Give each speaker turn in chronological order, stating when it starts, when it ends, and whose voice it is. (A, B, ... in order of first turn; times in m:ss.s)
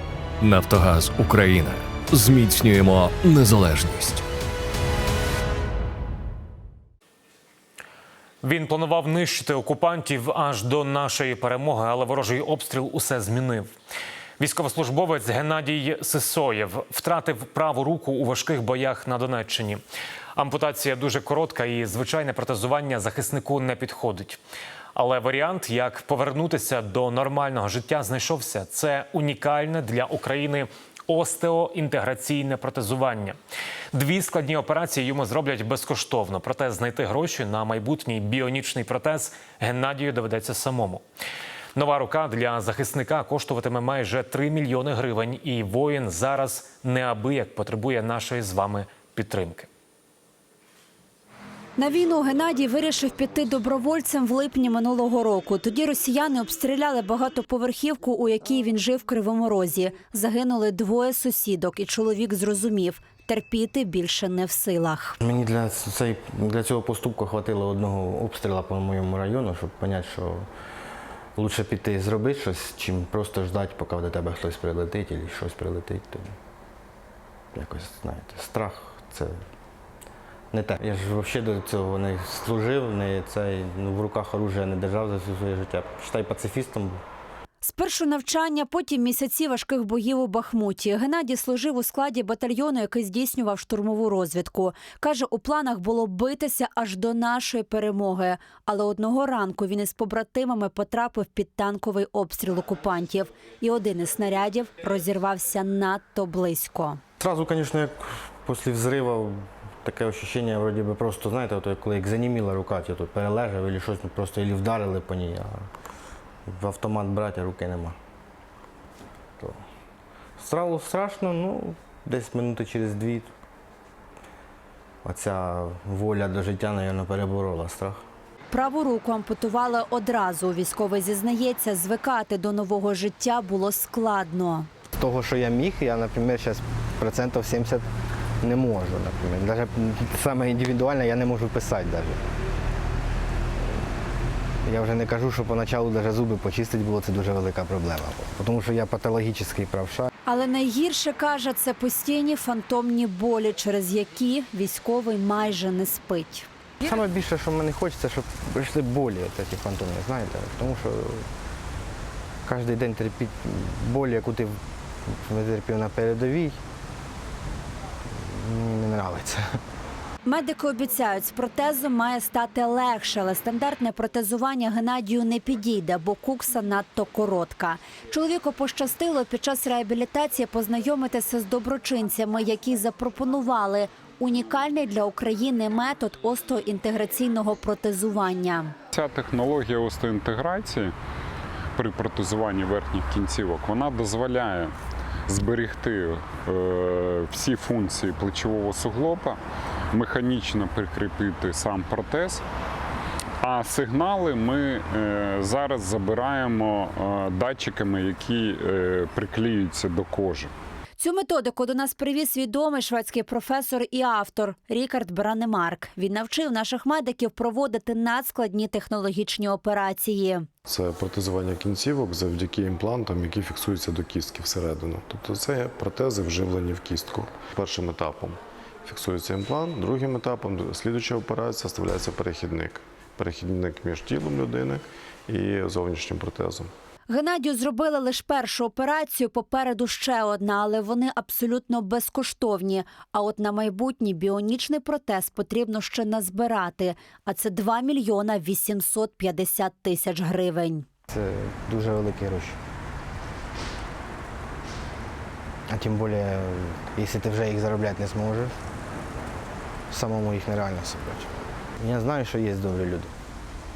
0:00.4-0:04.2 A
0:08.4-0:13.7 B
0:14.4-0:19.8 B
0:20.4-0:24.4 B
0:25.0-0:33.3 B
0:33.9-0:41.0 B
0:41.8-0:49.7 B
0:51.8-1:05.2 C
1:05.2-1:10.4 D
1:11.4-1:16.3 D
1:17.5-1:19.4 D
1:20.5-1:27.0 D
1:27.6-1:47.0 C
1:47.2-1:55.7 D
1:56.5-1:58.0 D
2:00.4-2:03.3 D
2:05.0-2:08.0 D
2:08.5-2:14.7 C
2:15.0-2:17.8 D
2:18.4-2:22.2 D
2:24.6-2:30.1 D
2:30.2-2:36.5 C
2:36.8-2:41.3 D
2:42.4-2:46.6 D
2:48.2-2:49.4 D
2:50.2-3:08.7 C
3:08.9-3:10.9 E
3:11.8-3:14.7 E
3:15.3-3:19.4 E
3:19.9-3:22.4 E
3:23.4-3:30.5 E
3:31.0-3:40.5 C
3:40.7-3:56.7 F
3:57.1-4:10.8 C
4:11.1-4:12.6 D
4:15.7-4:18.5 D
4:19.9-4:23.1 D